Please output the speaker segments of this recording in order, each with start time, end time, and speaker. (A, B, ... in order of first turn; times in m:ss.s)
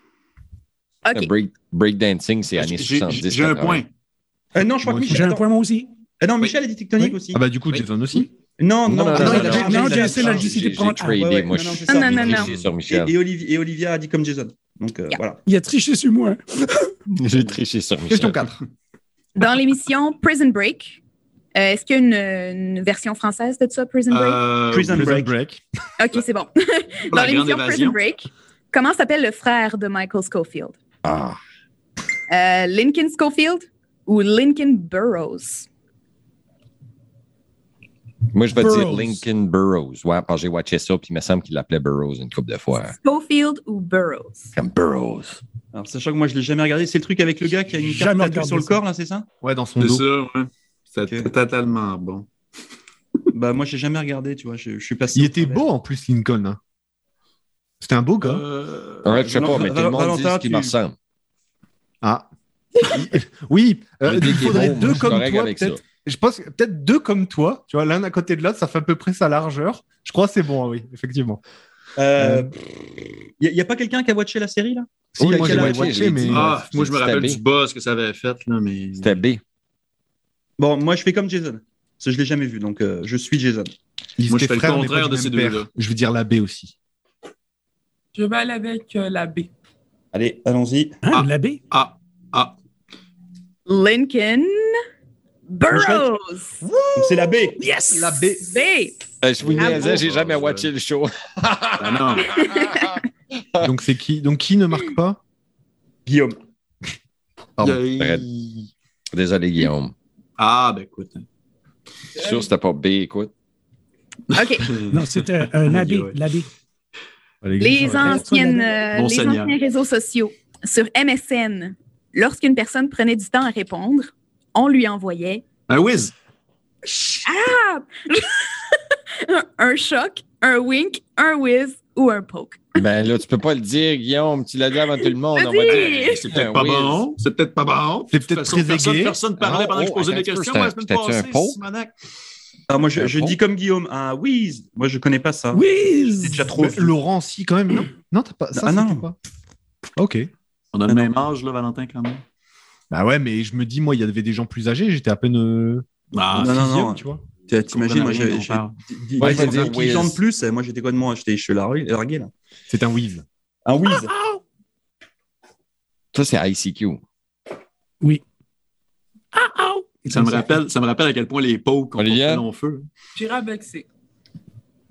0:01.0-0:01.3 A
0:01.1-0:03.8 B
0:02.6-0:03.9 C
0:04.5-0:05.4 D
0:04.9-0:05.2 E
0:05.1-0:05.9 F
0:06.2-0:07.4 D
0:07.3-0:08.3 E
0:08.2-0:15.4 D
0:08.9-0:13.1 B
0:09.1-0:10.3 E
0:09.2-0:11.2 F
0:11.9-0:12.5 A
0:15.5-0:16.4 F
0:17.2-0:18.4 B
0:18.1-0:18.6 E
0:19.4-0:21.0 A
0:21.6-0:24.4 A
0:24.1-0:25.0 C
0:24.7-0:25.3 D
0:24.9-0:25.6 E
0:26.0-0:30.8 A
0:27.1-0:28.0 C
0:31.0-0:31.4 B
0:32.3-0:35.7 A
0:38.3-0:43.0 B
0:38.6-0:39.2 F
0:42.7-0:44.5 A
0:44.6-0:45.4 B
0:45.7-0:49.3 D
0:47.8-0:48.8 F
0:49.4-0:50.0 E
0:49.8-0:52.3 C
0:51.0-0:51.3 D
0:53.3-0:55.6 D
0:55.1-0:56.6 E
0:57.8-0:58.4 E
0:58.2-0:59.5 C
0:59.0-1:01.0 B
0:59.2-1:00.8 D
1:02.0-1:02.3 E
1:02.8-1:11.4 E
1:04.0-1:05.8 B
1:12.0-1:12.6 D
1:12.2-1:12.5 E
1:13.4-1:16.1 D
1:15.1-1:16.5 E
1:15.2-1:17.4 B
1:16.3-1:19.2 C
1:19.0-1:19.4 B
1:20.6-1:23.7 D
1:24.2-1:26.8 E
1:24.3-1:25.7 C
1:28.1-1:29.5 G
1:30.1-1:31.0 D
1:31.0-1:31.6 F
1:31.1-1:32.6 C
1:33.7-1:34.8 A
1:35.5-1:36.6 A
1:35.7-1:36.1 D
1:36.6-1:37.3 E
1:37.0-1:37.6 D
1:37.6-1:38.3 F
1:37.9-1:38.5 E
1:38.4-1:39.0 A
1:39.2-1:43.6 B
1:39.5-1:40.7 C
1:39.6-1:40.0 A
1:41.8-1:42.3 C
1:42.2-1:43.0 A
1:43.6-1:45.2 E
1:46.1-1:46.4 D
1:47.6-1:48.7 C
1:48.0-1:48.3 B
1:49.1-1:49.9 B
1:50.4-1:51.2 C
1:52.2-1:53.3 B
1:54.3-1:56.4 C
1:54.3-1:54.7 A
1:54.9-1:56.5 F
1:57.4-1:58.3 E
1:57.6-2:05.4 A
1:58.0-1:58.6 F
1:58.9-1:59.6 C
2:05.7-2:06.1 C
2:06.9-2:12.7 A
2:12.8-2:17.0 B
2:15.4-2:16.2 A
2:15.7-2:21.9 C
2:18.1-2:19.2 E
2:19.4-2:21.6 B
2:22.7-2:25.6 D
2:22.9-2:23.4 B
2:25.5-2:26.5 F
2:26.2-2:27.0 D
2:26.5-2:29.2 E
2:28.5-2:29.1 D
2:30.0-2:30.3 E
2:30.7-2:32.2 C
2:30.9-2:31.1 D
2:32.9-2:37.2 E
2:36.1-2:36.9 C
2:36.4-2:42.3 D
2:37.7-2:39.9 C
2:39.2-2:40.2 B
2:42.7-2:43.3 E
2:43.6-2:44.1 D
2:43.8-2:44.4 F
2:46.1-2:47.0 B
2:49.3-2:50.6 F
2:50.1-2:52.9 C
2:52.0-2:52.4 B
2:53.2-2:53.9 G